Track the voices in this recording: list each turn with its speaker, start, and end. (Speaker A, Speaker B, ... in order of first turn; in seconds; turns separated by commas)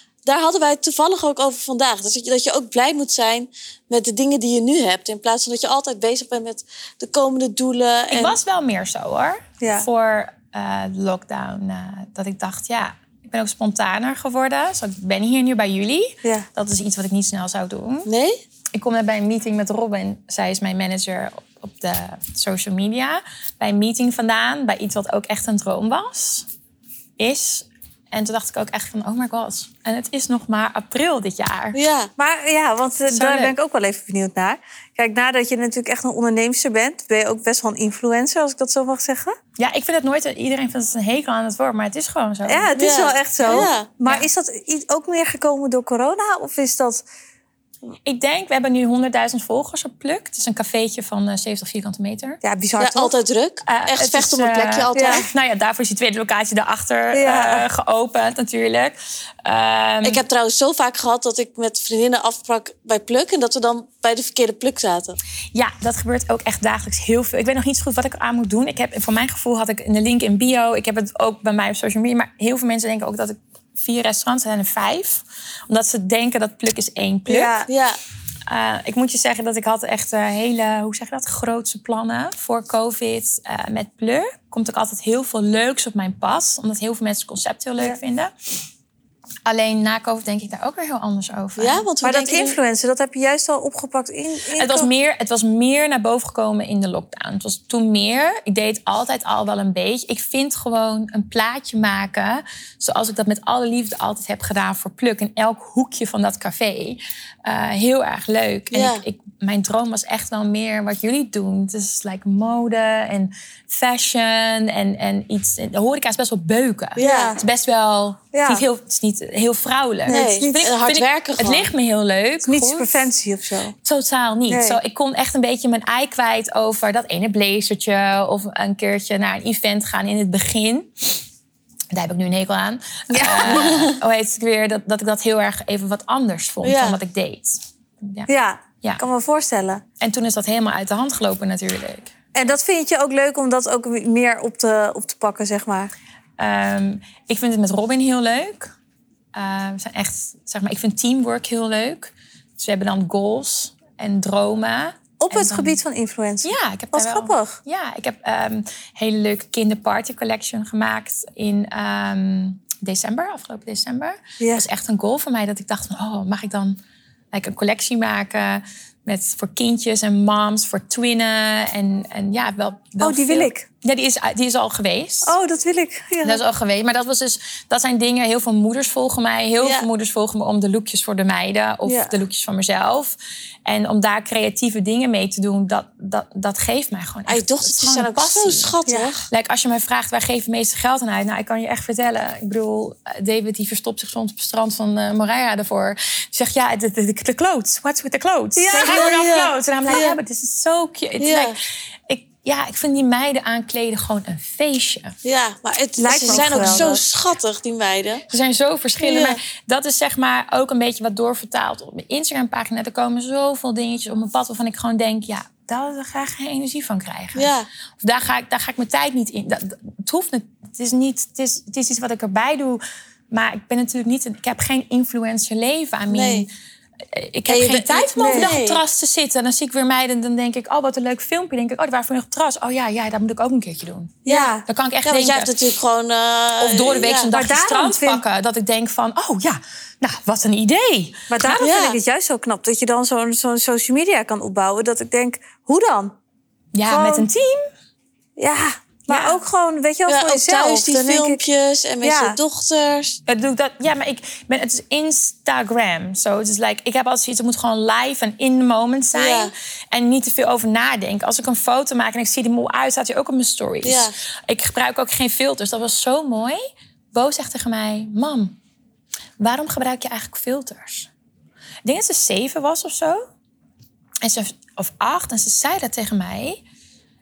Speaker A: 0.2-8.4, Speaker B: 8.1-18.1, Speaker C: 9.6-9.9, Speaker A: 18.1-18.4, Speaker B: 18.7-26.5, Speaker B: 27.2-31.8, Speaker A: 31.7-32.1, Speaker C: 32.2-39.4, Speaker B: 33.1-33.5, Speaker B: 39.6-42.7, Speaker C: 42.5-47.0, Speaker A: 42.8-43.9, Speaker B: 43.4-44.3, Speaker B: 48.0-52.4, Speaker C: 52.4-53.1, Speaker A: 52.8-55.3, Speaker B: 53.7-60.2, Speaker C: 54.9-55.3, Speaker C: 57.1-57.7, Speaker A: 60.0-65.2, Speaker B: 65.5-77.6, Speaker C: 77.3-77.7, Speaker A: 77.7-78.0, Speaker B: 78.5-88.3, Speaker B: 89.5-91.9, Speaker A: 91.6-92.6, Speaker C: 92.0-94.9, Speaker B: 94.6-123.1, Speaker A: 108.7-109.0, Speaker A: 117.0-117.4, Speaker C: 117.0-117.4, Speaker C: 118.3-118.6, Speaker C: 120.1-120.7, Speaker A: 120.1-121.7, Speaker C: 122.4-123.8, Speaker B: 123.8-131.2, Speaker C: 124.5-124.8, Speaker B: 131.9-138.3, Speaker C: 133.1-134.0, Speaker A: 136.6-137.0, Speaker C: 138.3-139.8, Speaker B: 140.0-142.1, Speaker C: 142.3-145.9, Speaker B: 146.4-148.7, Speaker B: 149.3-155.8, Speaker C: 155.2-157.6, Speaker B: 156.4-166.8, Speaker C: 164.4-164.7, Speaker B: 167.3-175.3, Speaker C: 173.0-173.7, Speaker C: 175.2-176.4, Speaker B: 176.2-188.8, Speaker A: 179.6-179.9, Speaker C: 181.8-182.2, Speaker A: 187.3-189.2, Speaker C: 188.9-189.1, Speaker B: 189.3-205.2, Speaker C: 198.6-200.1, Speaker A: 198.8-200.2, Speaker A: 201.2-201.6, Speaker A: 205.2-208.2, Speaker C: 206.0-207.0, Speaker B: 206.1-206.9, Speaker B: 208.3-226.5, Speaker A: 209.0-209.4, Speaker A: 217.3-217.7, Speaker A: 226.1-226.5, Speaker B: 227.1-235.5, Speaker A: 227.5-228.8, Speaker C: 228.2-228.5, Speaker C: 234.2-234.7, Speaker A: 234.3-234.5, Speaker A: 235.0-237.3, Speaker B: 236.6-241.7, Speaker C: 237.3-238.2, Speaker C: 241.3-246.2, Speaker A: 241.6-242.0, Speaker B: 246.7-247.6, Speaker C: 246.9-247.3, Speaker C: 248.4-251.4, Speaker B: 249.1-249.4, Speaker A: 250.1-253.2, Speaker C: 252.0-252.4, Speaker B: 253.3-266.6, Speaker A: 259.1-259.5, Speaker A: 263.8-264.1, Speaker B: 267.1-268.6, Speaker B: 269.4-271.1, Speaker B: 271.9-273.3, Speaker B: 274.2-276.6